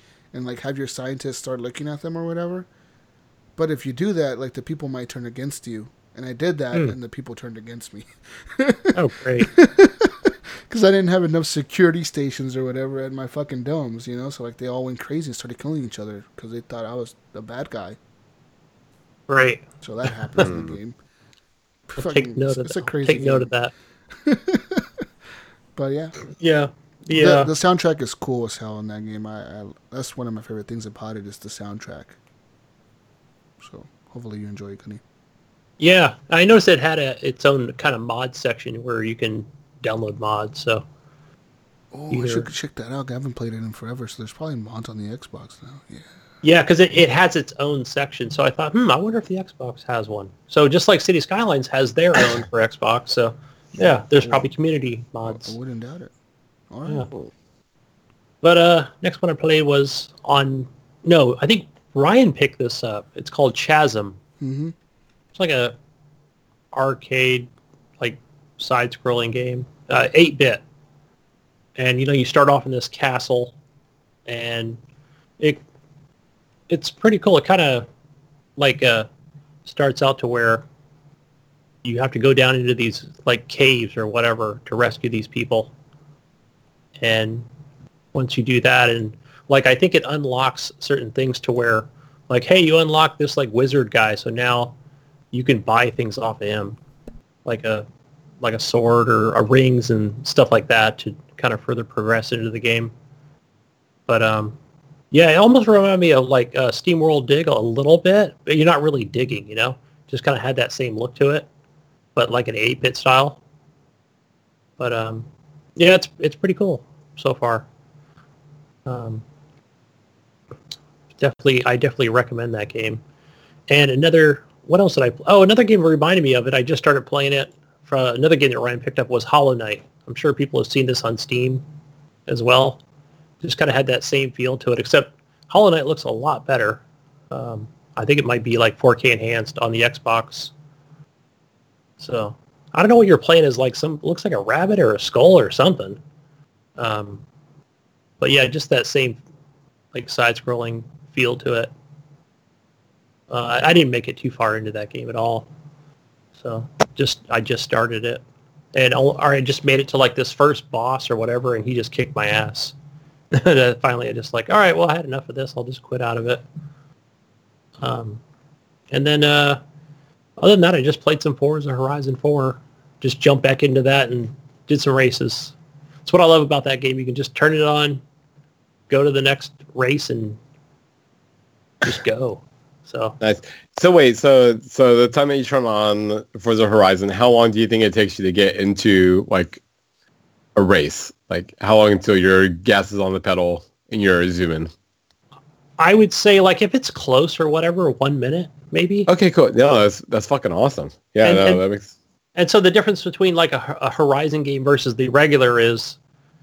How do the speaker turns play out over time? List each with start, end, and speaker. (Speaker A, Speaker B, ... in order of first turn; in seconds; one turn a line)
Speaker A: 0.3-2.7
Speaker A: 3.6-18.0
Speaker B: 8.9-9.5
Speaker B: 19.3-19.6
Speaker A: 19.8-21.0
Speaker C: 20.4-20.8
Speaker A: 21.9-23.5
Speaker B: 22.0-23.7
Speaker A: 24.1-25.0
Speaker A: 25.8-26.1
Speaker B: 26.3-27.5
Speaker A: 27.1-32.2
Speaker A: 33.6-35.0
Speaker B: 35.8-40.9
Speaker A: 41.9-46.0
Speaker B: 42.1-42.5
Speaker B: 46.4-55.5
Speaker A: 55.2-56.1
Speaker A: 56.7-57.1
Speaker B: 58.4-64.2
Speaker A: 64.4-64.8
Speaker B: 65.3-65.8
Speaker B: 66.7-70.6
Speaker B: 71.8-73.5
Speaker B: 74.3-74.8
Speaker B: 76.7-77.9
Speaker B: 78.6-79.1
Speaker B: 79.7-80.6
Speaker B: 81.8-85.7
Speaker B: 87.0-87.5
Speaker B: 88.1-94.8
Speaker B: 95.3-96.8
Speaker B: 97.5-97.9
Speaker B: 98.4-102.9
Speaker B: 104.1-104.6
Speaker B: 105.1-111.5
Speaker B: 112.2-113.4
Speaker B: 114.8-117.7
Speaker B: 118.9-119.2
Speaker B: 121.2-123.0
Speaker B: 123.7-131.6
Speaker B: 132.3-132.8
Speaker B: 133.4-140.5
Speaker B: 142.0-146.0
Speaker B: 146.8-147.2
Speaker B: 148.2-149.2
Speaker B: 149.9-151.7
Speaker B: 153.3-155.5
Speaker B: 156.4-158.2
Speaker B: 158.7-162.8
Speaker B: 163.3-166.4
Speaker B: 167.8-168.2
Speaker B: 168.9-169.6
Speaker B: 170.4-178.0
Speaker B: 178.9-180.4
Speaker B: 181.8-183.2
Speaker C: 183.2-189.6
Speaker C: 190.6-194.7
Speaker B: 195.8-199.1
Speaker C: 199.1-201.9
Speaker B: 201.2-201.6
Speaker B: 202.4-206.0